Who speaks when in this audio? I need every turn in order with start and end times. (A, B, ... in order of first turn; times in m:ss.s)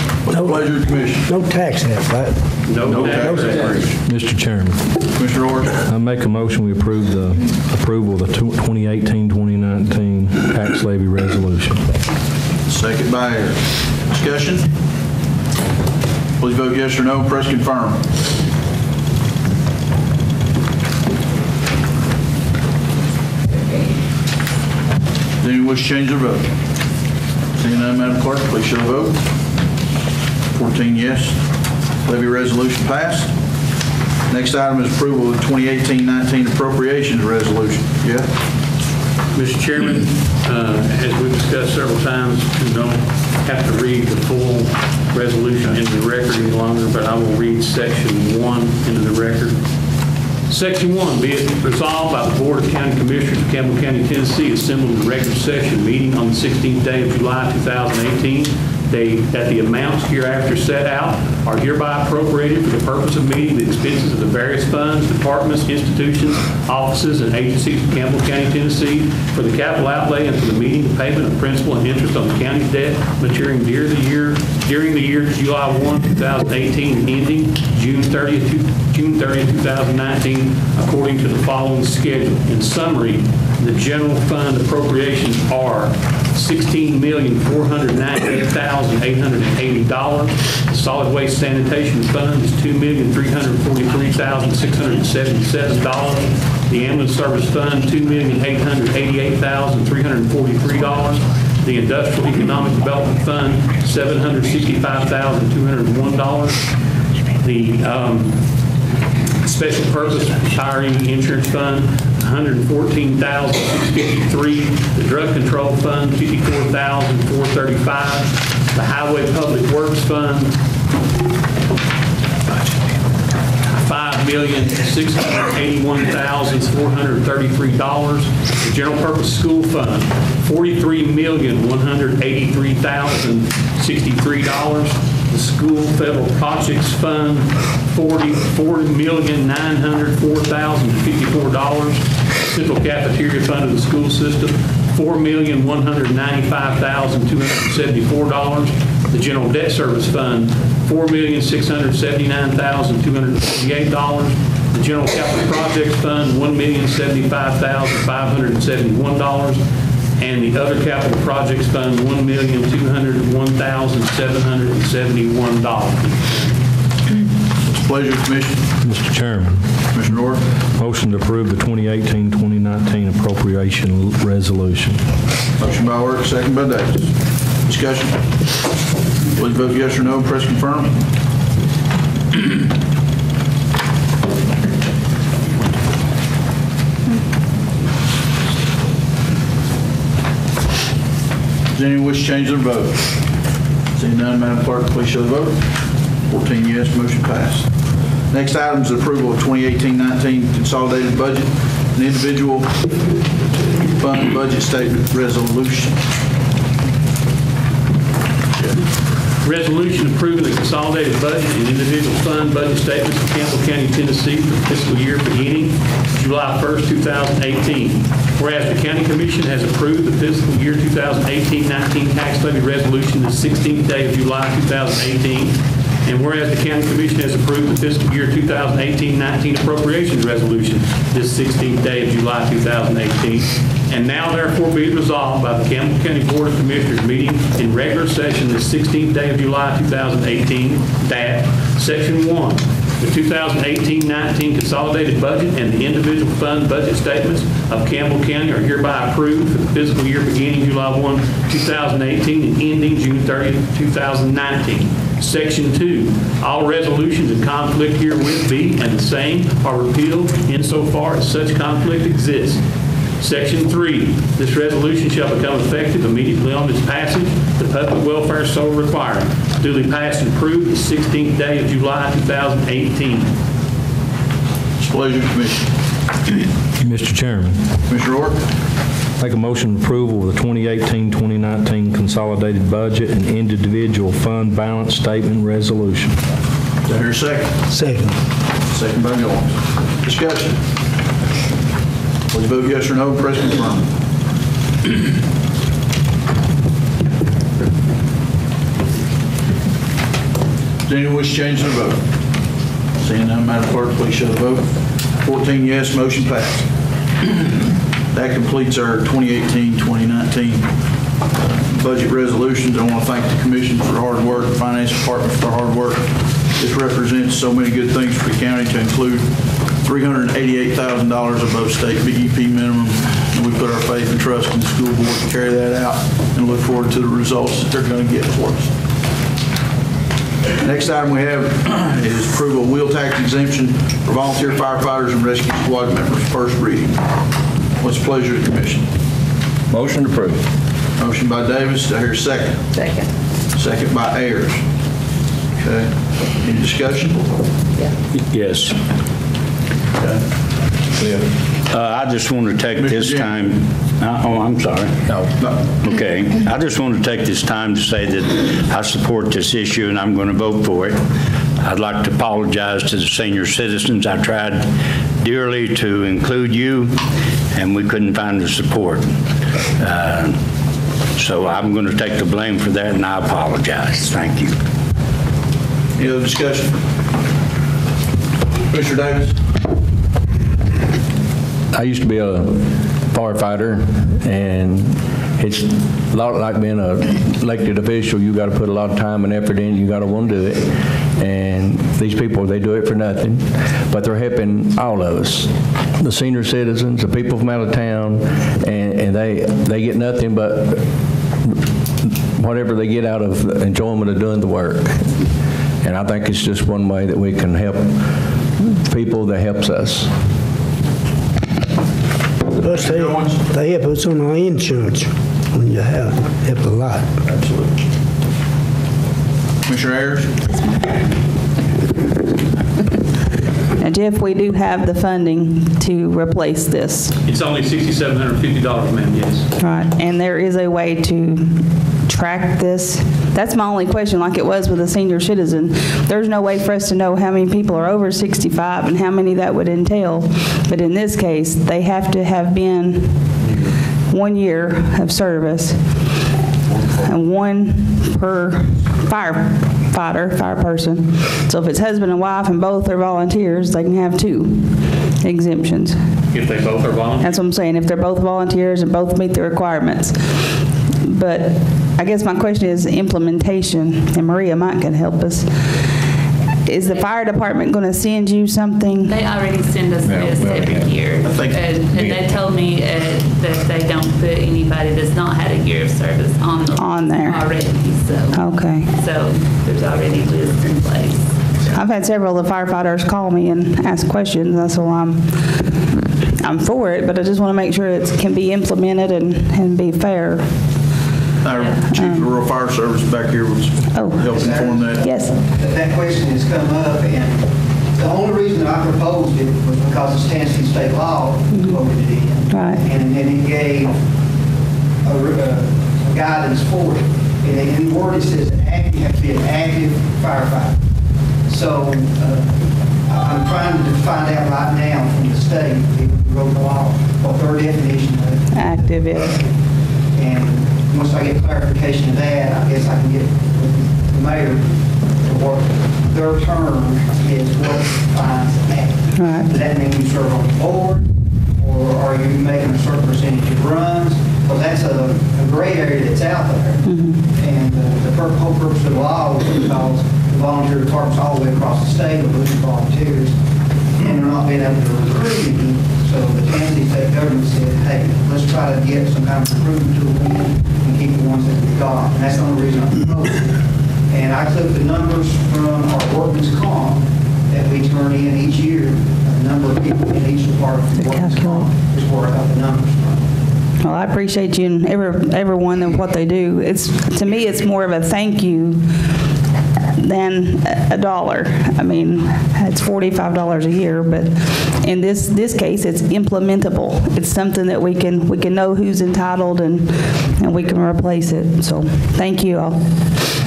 0:00.2-0:01.3 A
0:00.3-0:03.8 B
0:02.7-0:03.9 C
0:02.8-0:03.8 A
0:04.0-0:05.1 D
0:05.2-0:05.8 A
0:05.9-0:11.8 D
0:12.7-0:14.7 A
0:16.4-0:18.0 A
0:25.4-0:26.5 A
0:27.6-0:29.2 A
0:30.5-0:31.4 A
0:32.0-0:33.3 A
0:34.3-0:38.3 A
0:39.3-0:49.6 C
0:50.5-1:46.6 C
1:47.4-1:48.4 C
1:49.4-2:00.6 C
2:03.7-2:39.6 C
2:40.2-2:46.6 C
2:47.6-2:48.7 A
2:48.8-2:49.8 D
2:49.9-2:50.4 A
2:50.8-2:55.0 D
2:55.6-2:58.5 A
2:59.4-3:01.0 A
3:11.7-3:13.1 A
3:13.9-3:17.7 A
3:18.3-3:22.9 A
3:24.0-3:26.0 A
3:29.4-4:22.6 C
4:23.2-4:33.3 C
4:34.8-4:35.7 A
4:36.8-4:37.7 D
4:37.9-4:38.4 A
4:39.2-4:46.2 D
4:46.9-4:47.5 A
4:47.7-4:48.2 B
4:48.7-4:50.6 A
4:52.3-4:53.9 A
5:00.8-5:02.0 A
5:03.0-5:06.7 A
5:08.1-5:10.7 A
5:11.4-5:19.3 A
5:19.8-5:28.7 A
5:30.6-5:37.0 A
5:37.8-5:38.9 A
5:39.7-5:40.4 E
5:41.0-5:42.6 A
5:42.7-5:43.1 F
5:43.6-5:44.6 A
5:45.6-5:47.3 A
5:48.3-5:48.7 G
5:51.7-5:55.2 G
5:52.8-5:53.4 A
5:55.4-5:55.7 A
5:55.8-6:01.0 G
6:01.6-6:07.0 G
6:07.5-6:09.2 G
6:09.8-6:10.4 G
6:11.2-6:14.6 G
6:16.0-6:16.8 A
6:18.7-6:19.4 A
6:21.7-6:40.8 E
6:41.4-6:45.1 E
6:45.8-6:48.1 E
6:48.7-6:50.1 E
6:52.6-6:57.1 B
6:52.7-6:53.4 A
6:57.2-6:57.7 A
6:59.6-7:00.3 A
7:03.8-7:07.1 H
7:07.3-7:09.5 C
7:09.6-7:23.3 H
7:24.1-7:26.1 H
7:27.0-7:36.0 H
7:36.3-7:37.4 C
7:37.2-7:45.9 H
7:46.7-7:49.2 H
7:46.8-7:47.4 F
7:49.1-8:01.4 F
7:50.0-7:51.1 E
7:51.2-7:51.7 A
7:51.9-7:52.4 E
7:56.7-7:57.6 H
7:58.3-7:58.9 H
8:01.7-8:05.6 H
8:06.4-8:10.5 H
8:11.4-8:15.0 A
8:11.8-8:12.3 H
8:13.9-8:14.4 H
8:14.3-8:24.0 I
8:15.0-8:15.4 H
8:21.5-8:21.8 H
8:22.5-8:22.8 H
8:25.0-8:30.8 I
8:31.5-8:32.5 I
8:33.0-8:39.3 I
8:38.5-8:39.4 H
8:40.1-9:03.4 I
8:49.2-8:49.5 H
8:56.8-8:57.2 H
9:04.0-9:23.2 I
9:21.0-9:21.6 H
9:23.8-9:29.2 H
9:30.0-9:42.9 H